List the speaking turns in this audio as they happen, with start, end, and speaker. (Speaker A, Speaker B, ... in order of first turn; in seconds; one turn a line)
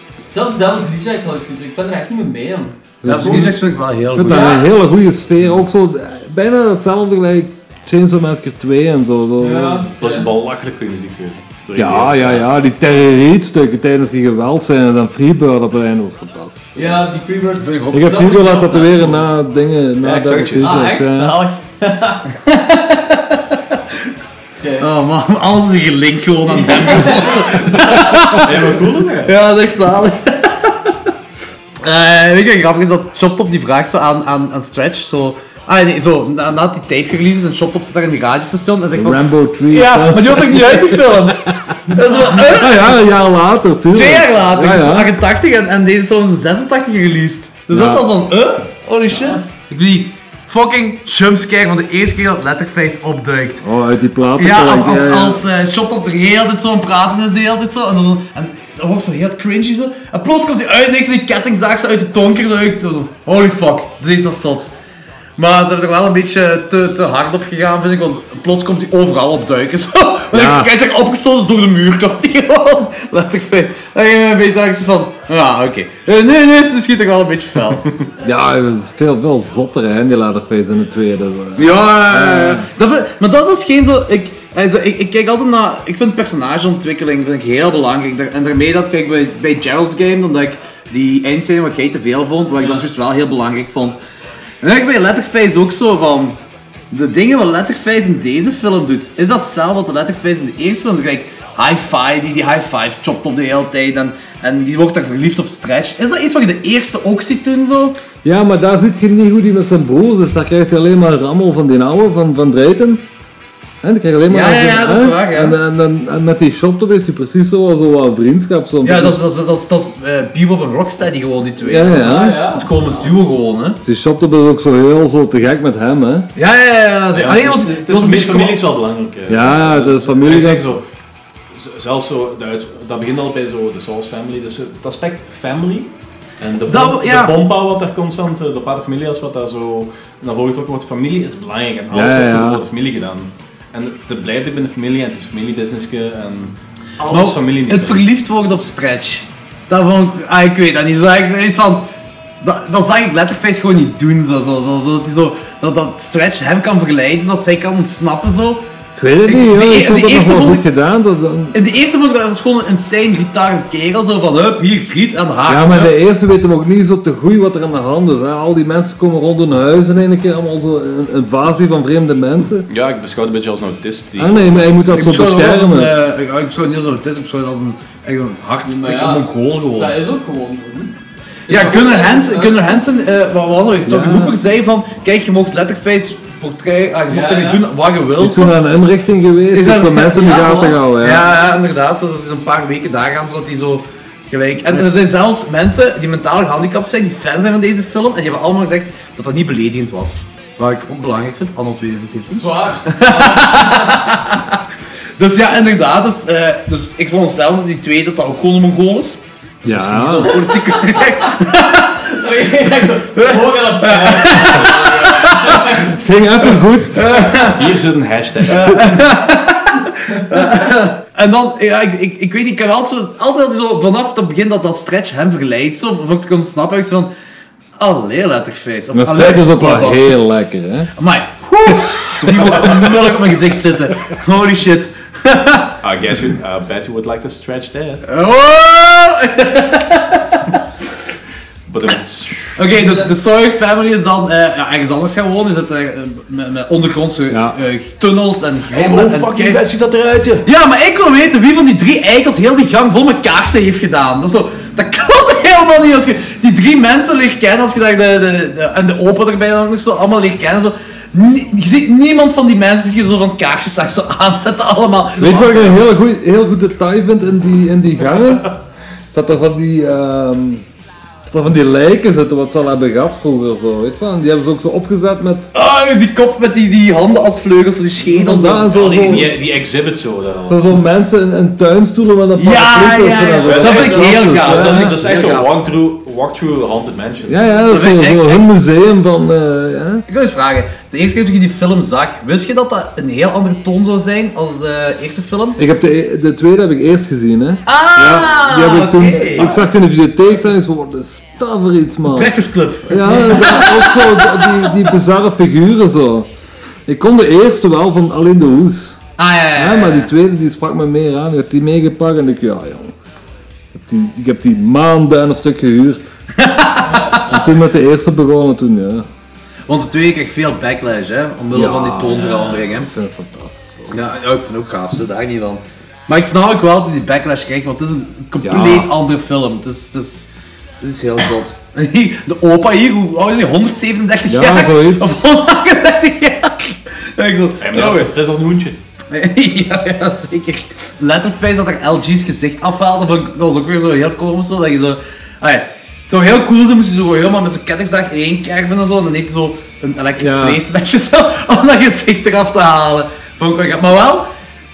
Speaker A: 0.3-3.5
Speaker B: 3.0-9.9
Speaker C: 3.0-4.7
Speaker A: 4.3-4.6
Speaker A: 9.4-10.3
Speaker D: 10.0-12.5
Speaker B: 11.8-16.9
Speaker A: 16.7-19.2
Speaker C: 17.6-18.8
Speaker B: 17.9-21.5
Speaker D: 20.0-20.9
Speaker A: 20.6-22.2
Speaker C: 22.4-24.1
Speaker A: 24.6-24.9
Speaker C: 24.8-31.1
Speaker A: 26.5-28.4
Speaker D: 28.4-29.3
Speaker C: 31.8-43.0
Speaker B: 38.9-41.0
Speaker A: 41.9-42.4
Speaker B: 42.4-45.1
Speaker C: 43.9-53.6
Speaker B: 47.7-48.0
Speaker B: 53.6-55.4
Speaker C: 54.4-64.7
Speaker C: 65.4-77.9
Speaker B: 70.3-70.7
Speaker B: 78.2-82.7
Speaker C: 81.6-94.0
Speaker A: 92.6-92.8
Speaker C: 94.6-96.4
Speaker C: 96.9-108.0
Speaker B: 108.2-113.0
Speaker B: 113.8-119.2
Speaker C: 114.3-115.6
Speaker C: 118.8-123.8
Speaker B: 121.6-122.4
Speaker A: 121.9-123.1
Speaker B: 123.8-126.3
Speaker C: 126.3-128.6
Speaker D: 127.1-130.8
Speaker B: 129.3-130.6
Speaker D: 131.5-148.1
Speaker C: 136.7-137.3
Speaker B: 141.9-142.6
Speaker C: 147.0-158.7
Speaker B: 159.0-161.6
Speaker C: 159.2-160.6
Speaker C: 161.5-165.9
Speaker B: 165.5-172.7
Speaker D: 172.7-175.3
Speaker B: 174.2-175.9
Speaker C: 174.9-180.0
Speaker A: 178.6-180.9
Speaker A: 181.5-182.8
Speaker C: 181.5-188.5
Speaker B: 183.8-184.4
Speaker A: 187.1-187.7
Speaker B: 188.2-191.3
Speaker C: 189.5-204.6
Speaker A: 190.2-190.8
Speaker A: 202.3-204.0
Speaker C: 205.2-215.9
Speaker B: 209.6-210.4
Speaker A: 210.6-215.9
Speaker B: 215.6-217.1
Speaker C: 216.4-217.8
Speaker D: 217.3-219.0
Speaker C: 218.5-227.1
Speaker C: 227.8-230.1
Speaker B: 228.9-230.9
Speaker C: 231.0-235.8
Speaker D: 232.3-232.8
Speaker D: 235.8-238.1
Speaker C: 238.1-240.6
Speaker D: 241.7-242.7
Speaker C: 242.6-249.6
Speaker D: 248.7-250.4
Speaker C: 250.4-266.0
Speaker B: 265.2-268.6
Speaker B: 269.1-270.6
Speaker B: 271.3-275.5
Speaker C: 275.5-279.3
Speaker B: 278.1-279.3
Speaker D: 278.8-280.8
Speaker B: 280.5-284.9
Speaker C: 282.4-285.5
Speaker D: 283.4-287.7
Speaker B: 287.2-290.0
Speaker C: 287.7-288.4
Speaker C: 290.1-295.6
Speaker B: 295.6-302.3
Speaker C: 297.7-299.6
Speaker C: 302.0-304.9
Speaker B: 302.9-306.3
Speaker B: 306.9-309.0
Speaker C: 309.2-310.1
Speaker B: 309.6-312.9
Speaker B: 313.7-316.1
Speaker C: 316.4-317.2
Speaker A: 316.8-317.6
Speaker B: 317.3-319.1
Speaker C: 319.7-322.9
Speaker B: 321.5-324.0
Speaker A: 322.1-322.6
Speaker C: 323.9-338.1
Speaker B: 328.4-328.9
Speaker B: 334.3-335.2
Speaker D: 337.6-338.8
Speaker C: 339.1-354.3
Speaker B: 350.2-350.6